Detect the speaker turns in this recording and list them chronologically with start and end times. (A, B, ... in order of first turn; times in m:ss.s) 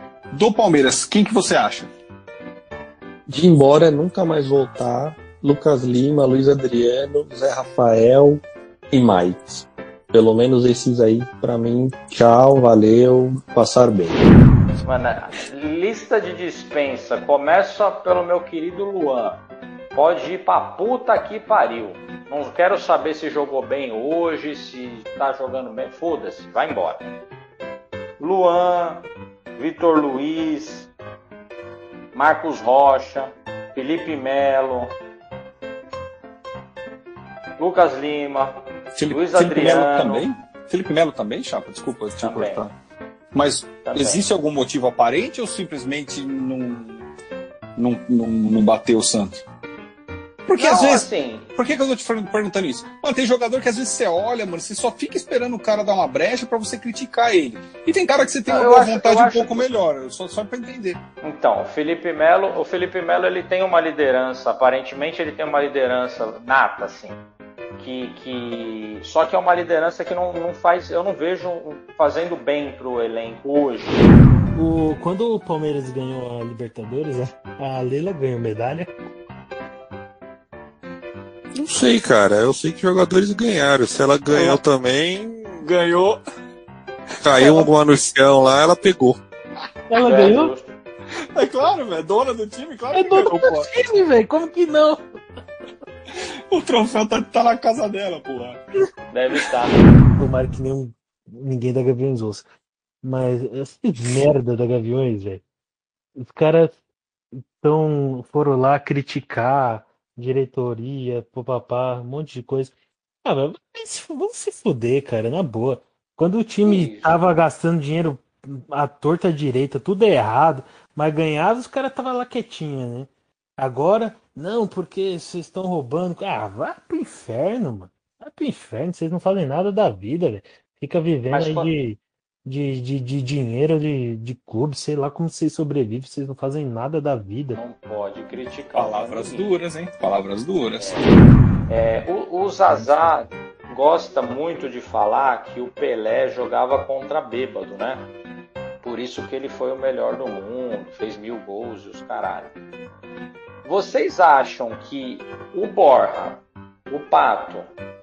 0:00.3-0:01.9 A
0:03.3-0:14.3 B
0:14.8-0:19.4 C
0:20.0-0:27.1 C
0:28.2-0:29.0 C
0:29.6-0:30.9 C
0:32.1-0:34.9 C
0:37.6-0:38.6 C
0:39.0-0:42.7 A
0:39.1-0:40.2 C
0:42.2-0:42.6 C
0:43.3-0:47.0 A
0:43.8-0:44.2 C
0:47.8-0:49.4 A
0:50.5-1:01.0 A
0:50.6-0:51.5 C
0:58.5-0:59.7 C
1:01.2-1:07.2 C
1:07.8-1:14.1 C
1:14.5-1:18.9 D
1:21.6-1:25.6 B
1:25.6-1:26.2 A
1:27.2-1:29.2 B
1:29.9-1:30.5 D
1:30.0-1:30.7 C
1:31.4-1:33.7 A
1:32.9-1:35.0 D
1:36.5-1:38.6 A
1:39.1-1:39.8 C
1:40.2-1:42.4 D
1:43.0-1:45.4 D
1:46.2-1:46.8 D
1:47.6-1:52.7 D
1:53.2-2:17.6 D
1:56.6-1:57.1 C
2:11.3-2:11.7 C
2:17.5-2:19.5 C
2:18.7-2:21.0 A
2:20.8-2:21.1 C
2:21.7-2:28.1 C
2:28.8-2:32.5 C
2:33.6-2:37.7 C